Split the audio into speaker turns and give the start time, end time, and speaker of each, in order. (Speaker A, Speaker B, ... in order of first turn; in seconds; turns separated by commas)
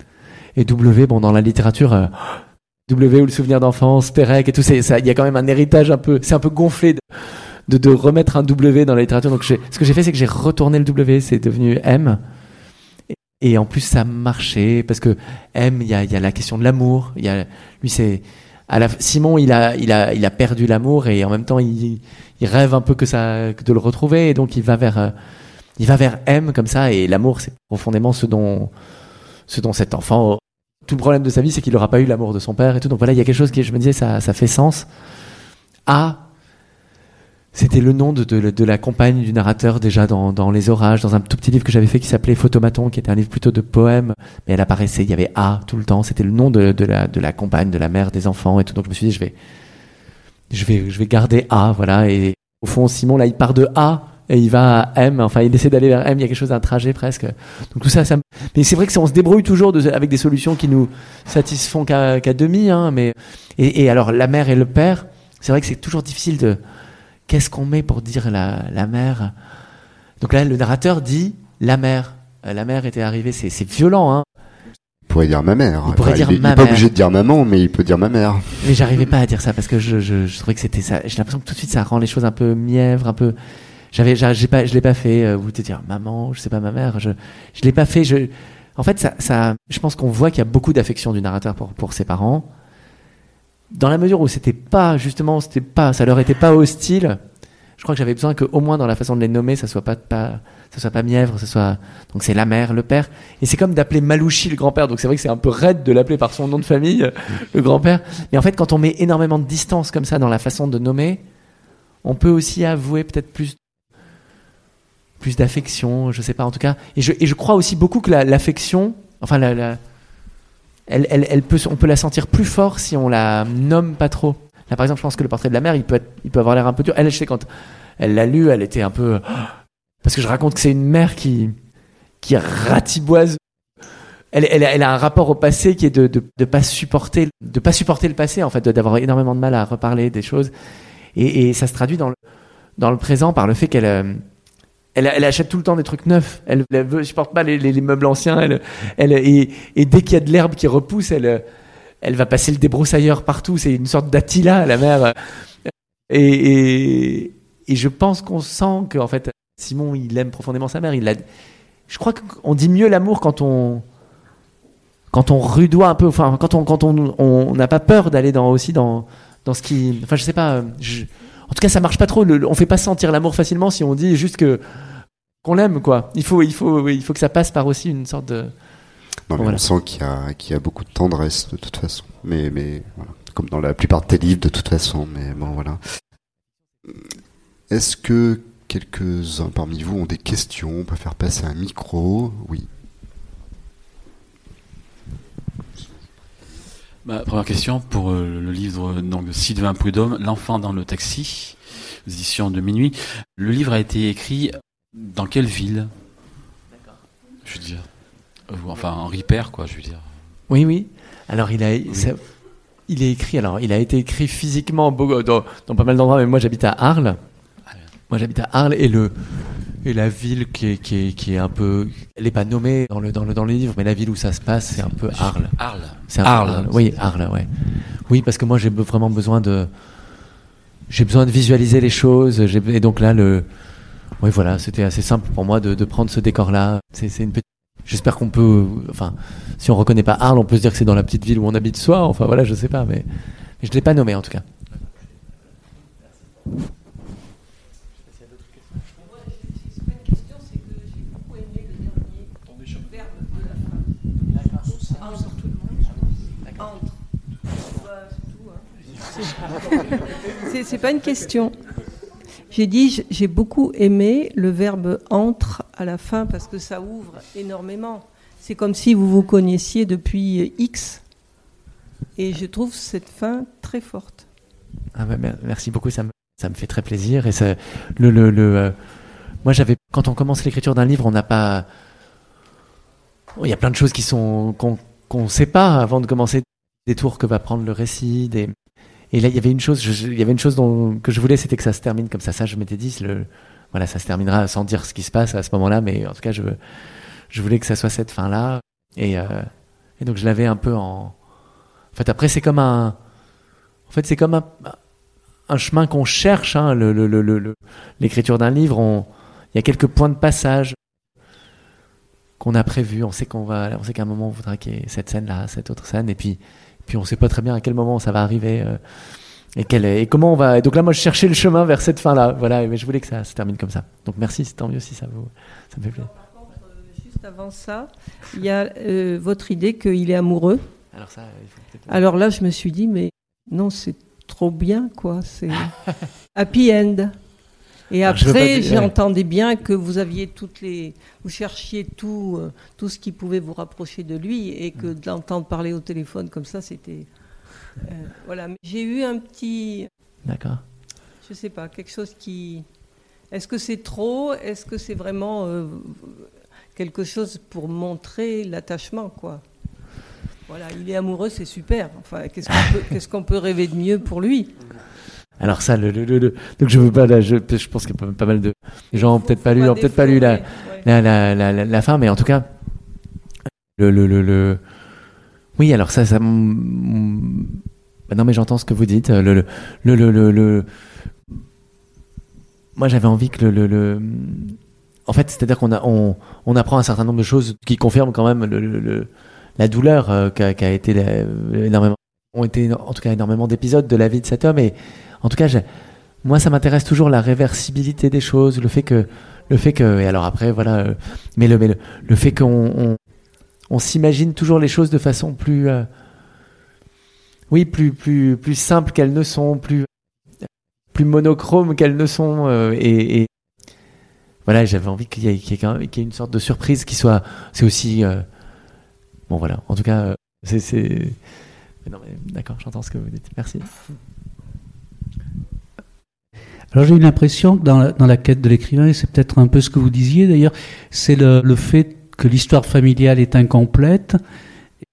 Speaker A: 0.6-12.2, Speaker A: 13.1-25.1, Speaker A: 25.8-28.7, Speaker A: 29.5-34.9, Speaker A: 35.9-36.2, Speaker A: 37.5-49.3, Speaker A: 50.5-66.6, Speaker A: 67.3-69.3, Speaker A: 70.2-74.2, Speaker B: 75.1-78.8, Speaker A: 75.9-76.9, Speaker A: 78.6-83.3, Speaker A: 83.9-92.5, Speaker A: 93.7-97.2, Speaker A: 97.8-111.2, Speaker A: 112.0-113.6, Speaker A: 115.2-119.8, Speaker A: 120.9-127.5, Speaker A: 128.0-131.6, Speaker A: 132.2-133.4, Speaker A: 134.3-140.5, Speaker A: 141.1-142.2, Speaker A: 142.8-144.2, Speaker A: 144.9-151.4, Speaker A: 152.0-161.2, Speaker A: 161.9-163.8, Speaker A: 165.1-178.5, Speaker B: 179.3-185.8, Speaker B: 187.7-192.7, Speaker C: 197.0-205.9, Speaker C: 207.4-207.9, Speaker C: 208.5-210.1, Speaker A: 210.5-212.2, Speaker A: 212.9-217.2, Speaker A: 218.1-225.6, Speaker C: 225.1-227.0, Speaker A: 226.1-229.7, Speaker A: 230.9-233.4, Speaker A: 234.2-243.1, Speaker A: 243.6-244.4, Speaker D: 249.8-253.4, Speaker D: 254.9-255.4, Speaker D: 256.6-256.9, Speaker D: 257.7-261.6, Speaker D: 262.5-271.0, Speaker D: 272.1-274.2, Speaker A: 274.9-278.8, Speaker A: 279.4-281.7, Speaker A: 283.4-288.5, Speaker A: 289.1-296.6, Speaker A: 297.3-301.1, Speaker A: 301.9-303.0, Speaker A: 303.9-304.8, Speaker A: 305.5-310.8, Speaker A: 312.4-318.8, Speaker A: 319.5-326.1, Speaker D: 326.1-330.7, Speaker A: 330.9-331.9, Speaker D: 331.9-335.7, Speaker D: 336.3-337.1, Speaker D: 337.9-347.1, Speaker A: 338.0-338.9, Speaker D: 347.8-349.9, Speaker A: 350.2-350.6, Speaker D: 351.2-352.6, Speaker D: 353.3-359.4, Speaker D: 360.5-364.5, Speaker A: 362.5-362.9, Speaker A: 365.4-372.5, Speaker D: 368.9-370.8, Speaker A: 373.8-374.6, Speaker A: 375.6-380.7, Speaker A: 382.8-395.6, Speaker A: 396.2-403.0, Speaker A: 403.7-405.9, Speaker A: 407.5-409.9, Speaker A: 410.9-413.3, Speaker A: 414.4-418.2, Speaker A: 419.3-421.2, Speaker A: 421.8-423.7, Speaker E: 426.7-434.2